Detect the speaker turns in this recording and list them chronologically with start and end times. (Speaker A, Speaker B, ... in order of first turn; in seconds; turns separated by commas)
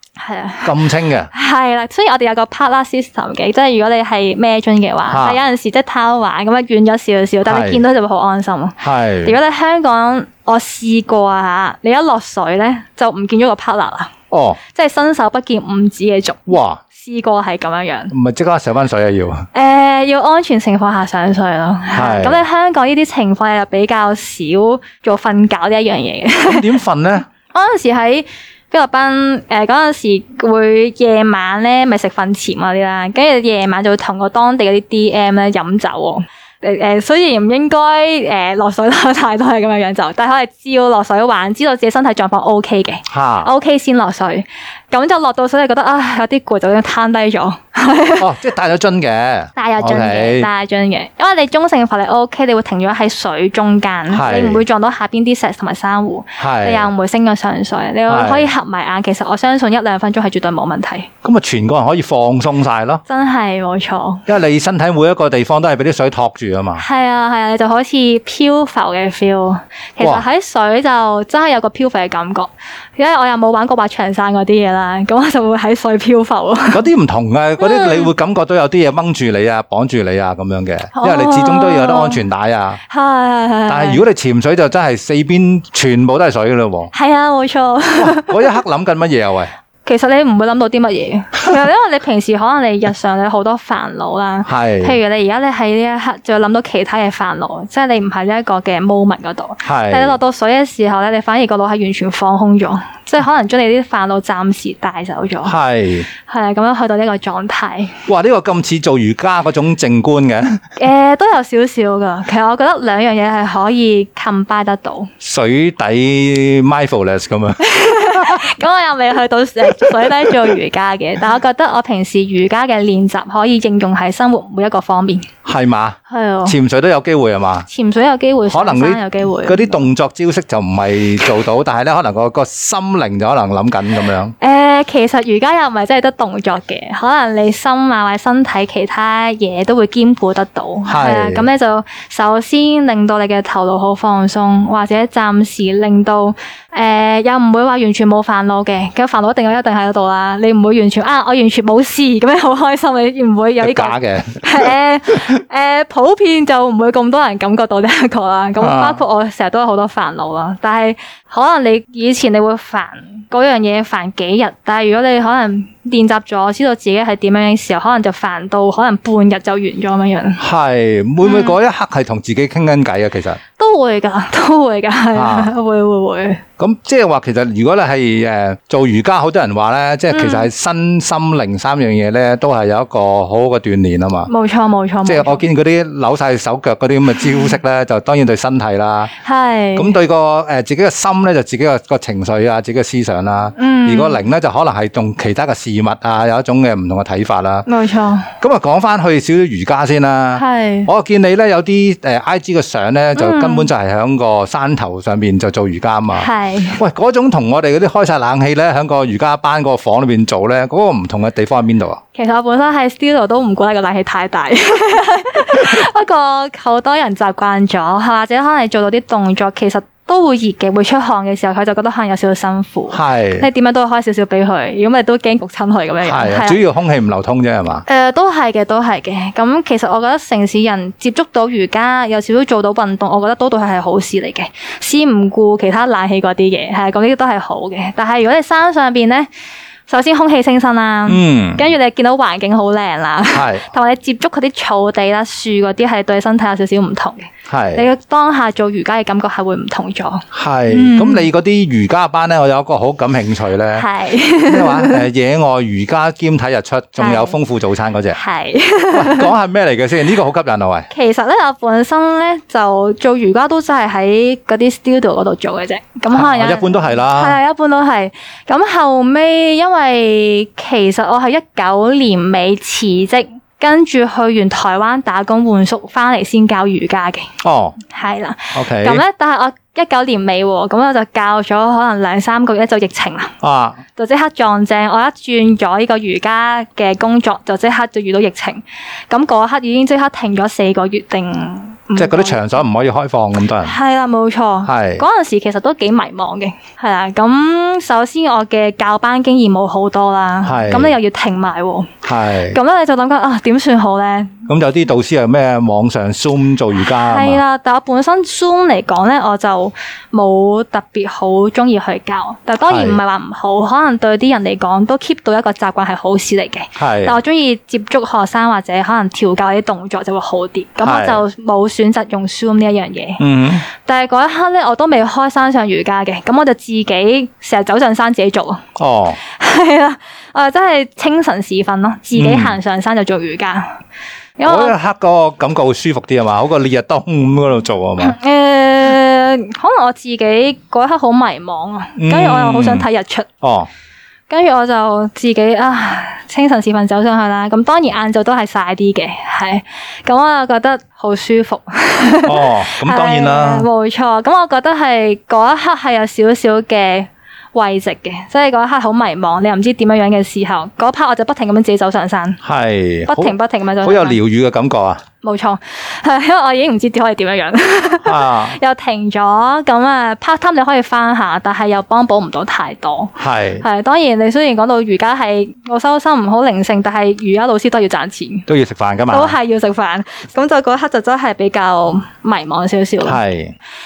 Speaker A: 0.2-18.1, Speaker B: 0.7-1.3, Speaker B: 5.1-5.4, Speaker B: 7.5-7.8, Speaker B: 8.8-9.4, Speaker B: 14.3-14.6, Speaker B: 16.5-16.8, Speaker B: 18.1-19.5, Speaker A: 19.5-26.7, Speaker B: 21.9-22.4, Speaker B: 26.4-27.3, Speaker A: 27.4-48.3, Speaker B: 43.1-43.5, Speaker B: 48.2-50.5, Speaker A: 49.6-61.1, Speaker B: 54.1-54.6, Speaker B: 56.4-56.9, Speaker B: 58.1-58.5, Speaker B: 61.2-63.0, Speaker A: 63.1-64.3, Speaker B: 64.3-66.8, Speaker A: 66.8-76.9, Speaker B: 76.7-82.8, Speaker A: 77.6-78.1, Speaker A: 80.9-82.2, Speaker A: 82.9-84.0, Speaker B: 83.7-86.9, Speaker A: 86.9-88.6, Speaker B: 88.0-89.5, Speaker A: 89.8-105.5, Speaker B: 94.5-95.0, Speaker B: 99.6-100.2, Speaker B: 105.5-106.1, Speaker A: 106.1-108.0, Speaker B: 108.1-110.6, Speaker A: 110.8-115.1, Speaker B: 115.2-118.5, Speaker A: 117.6-125.3, Speaker B: 119.8-120.3, Speaker B: 125.5-127.7, Speaker A: 126.1-126.6, Speaker A: 127.7-129.8, Speaker B: 128.5-134.3, Speaker A: 134.4-170.4, Speaker B: 140.9-141.5, Speaker B: 153.6-154.7, Speaker B: 158.6-159.0, Speaker B: 170.4-173.4, Speaker A: 171.2-171.5, Speaker A: 173.6-176.4, Speaker B: 175.1-175.5, Speaker B: 176.6-184.3, Speaker A: 180.1-180.5, Speaker A: 184.3-185.4, Speaker B: 185.1-189.1, Speaker A: 189.2-190.0, Speaker B: 189.8-197.7, Speaker A: 193.6-194.2, Speaker A: 197.7-198.3, Speaker B: 198.4-212.0, Speaker A: 200.4-200.9, Speaker A: 203.2-203.7, Speaker A: 206.2-206.8, Speaker A: 212.2-226.6, Speaker B: 222.9-223.5, Speaker B: 226.1-227.8, Speaker A: 227.9-239.3, Speaker A: 239.9-251.3, Speaker B: 241.1-241.7, Speaker B: 243.3-243.7, Speaker B: 247.5-247.9, Speaker B: 250.3-253.9, Speaker A: 253.8-255.1, Speaker B: 254.4-258.2, Speaker A: 257.0-257.4, Speaker A: 258.1-259.3, Speaker B: 258.9-260.9, Speaker A: 260.9-277.3, Speaker B: 266.1-267.4, Speaker B: 277.4-277.8, Speaker A: 277.9-283.4, Speaker B: 278.5-279.0, Speaker B: 283.4-283.8, Speaker A: 283.9-292.5, Speaker B: 292.0-293.8, Speaker A: 293.6-304.5, Speaker B: 294.6-295.1, Speaker B: 300.4-300.9, Speaker B: 302.1-302.6, Speaker B: 304.5-307.4, Speaker A: 306.8-328.7, Speaker B: 312.7-313.0, Speaker B: 316.8-317.2, Speaker B: 320.8-321.2, Speaker B: 323.2-323.6, Speaker B: 328.8-329.2, Speaker A: 329.2-333.8, Speaker B: 332.2-332.6, Speaker A: 334.4-334.7, Speaker B: 334.5-338.2, Speaker A: 338.0-343.3, Speaker B: 342.0-342.9, Speaker B: 343.4-343.7, Speaker A: 344.3-362.4, Speaker B: 352.3-353.7, Speaker B: 362.4-365.0, Speaker A: 363.1-364.2, Speaker A: 365.2-378.5, Speaker B: 368.0-368.6, Speaker B: 373.2-373.6, Speaker B: 378.5-379.4, Speaker A: 379.1-383.2, Speaker B: 383.1-383.6